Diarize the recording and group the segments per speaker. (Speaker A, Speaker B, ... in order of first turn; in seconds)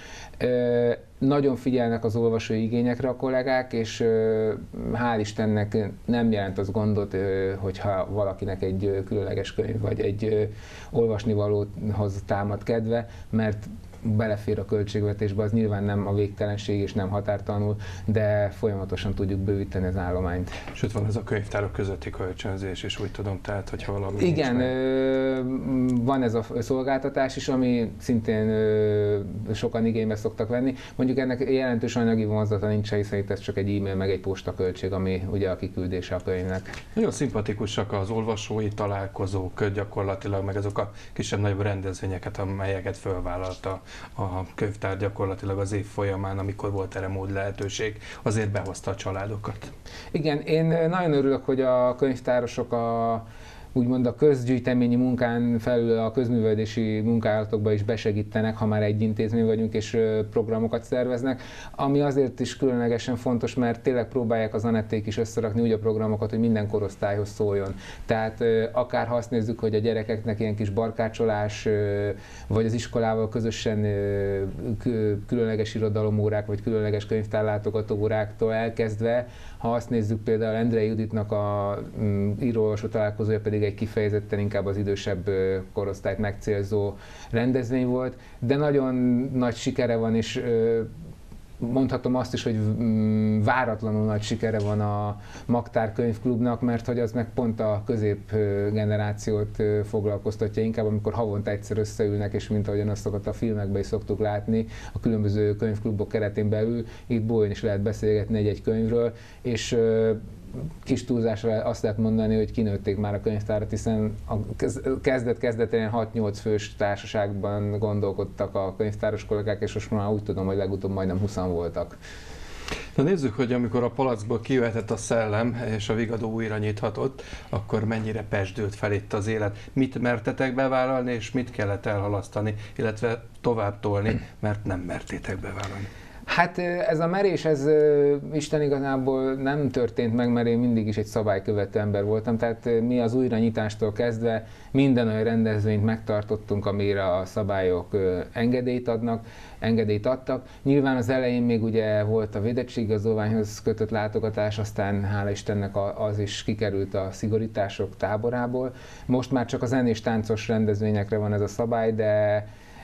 Speaker A: 0.4-20.6, 24.2-36.8, 50.1-90.9, 91.6-110.2, 110.8-122.0, 136.3-162.5
Speaker B: 20.7-24.7, 37.0-49.7, 123.0-135.9